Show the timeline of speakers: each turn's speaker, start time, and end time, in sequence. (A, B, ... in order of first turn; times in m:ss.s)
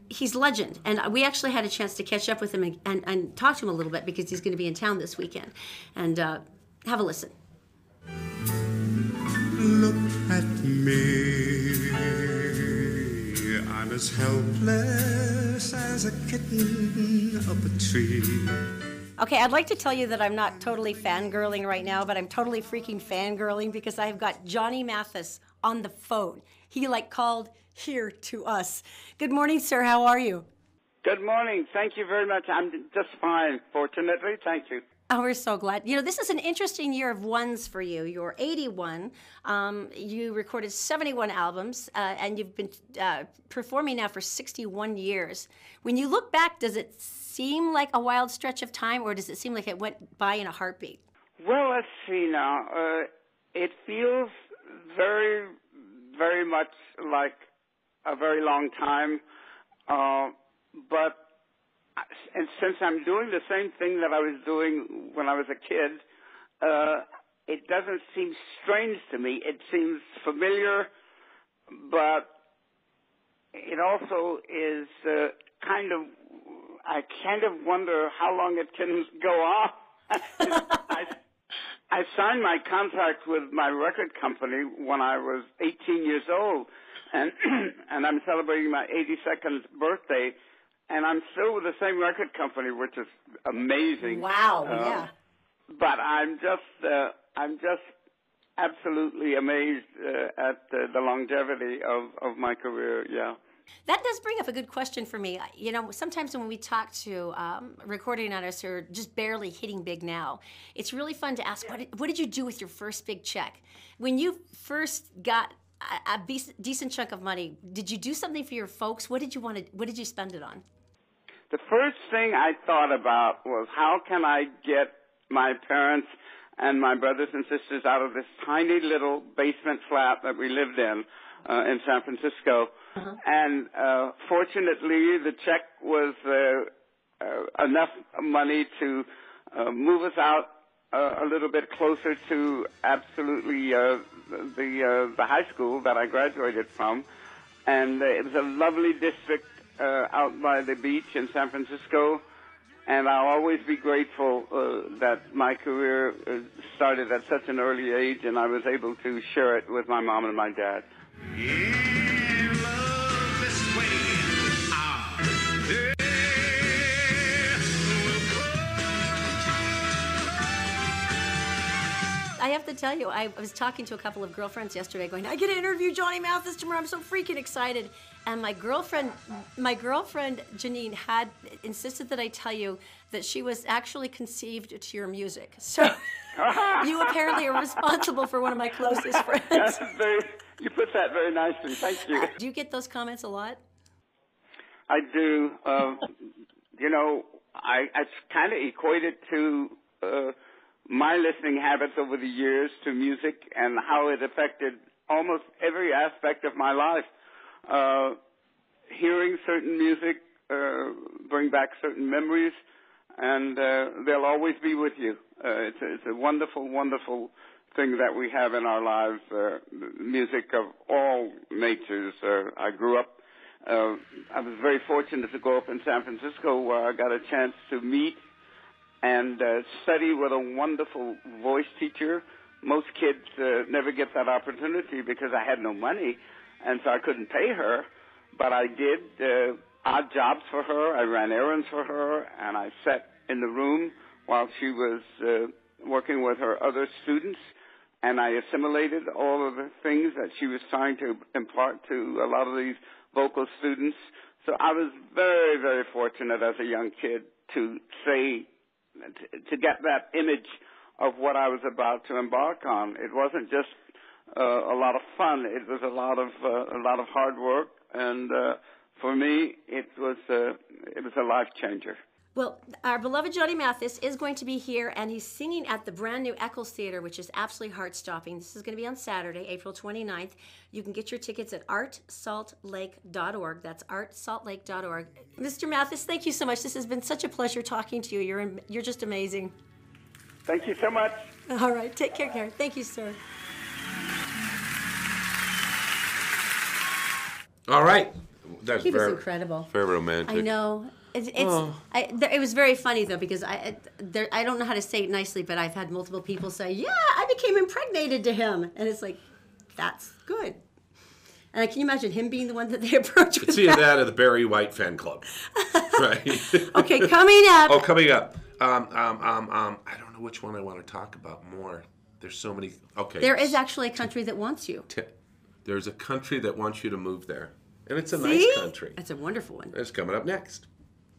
0:00.1-0:07.3 A
0:09.5-0:18.7 B
0:19.2-0:30.4 A
0:31.0-0:34.8 C
0:35.1-0:51.0 A
0:51.4-0:54.3 C
0:54.9-0:55.6 C
0:56.2-0:57.4 C
0:58.0-0:59.2 C
0:59.9-1:01.2 C
1:02.3-1:06.0 C
1:06.6-1:10.9 C
1:11.8-1:12.3 C
1:13.5-1:21.2 C
1:21.9-1:30.4 C
1:30.9-1:35.1 C
1:34.0-1:35.1 A
1:35.7-1:37.9 C
1:38.6-1:43.4 C
1:43.9-2:00.6 A
2:01.5-2:12.7 C
2:13.2-2:27.0 C
2:27.6-2:32.2 C
2:32.8-2:40.9 C
2:41.4-2:45.2 B
2:45.8-2:46.8 B
2:52.4-3:06.0 A
3:06.4-3:07.1 C
3:06.8-3:09.8 A
3:09.4-3:12.3 C
3:12.2-3:13.6 A
3:14.9-3:16.1 C
3:16.8-3:20.3 C
3:20.9-3:27.1 C
3:27.7-3:28.2 C
3:28.9-3:32.6 C
3:33.2-3:48.2 C
3:49.0-4:07.4 C
4:08.0-4:18.5 C
4:19.4-4:20.5 C
4:21.0-4:23.7 C
4:24.3-4:32.0 C
4:32.3-4:49.5 A
4:50.5-4:51.2 C
4:51.5-4:53.2 A
4:57.7-5:00.5 D
4:58.8-4:59.7 A
5:00.2-5:09.2 A
5:01.4-5:01.8 D
5:09.8-5:10.6 A
5:11.5-5:13.8 A
5:13.4-5:15.3 D
5:15.5-5:17.8 A
5:15.9-5:17.1 D
5:17.6-5:23.6 D
5:23.2-5:24.9 A
5:25.6-5:29.0 D
5:28.1-5:29.7 A
5:29.7-5:30.7 D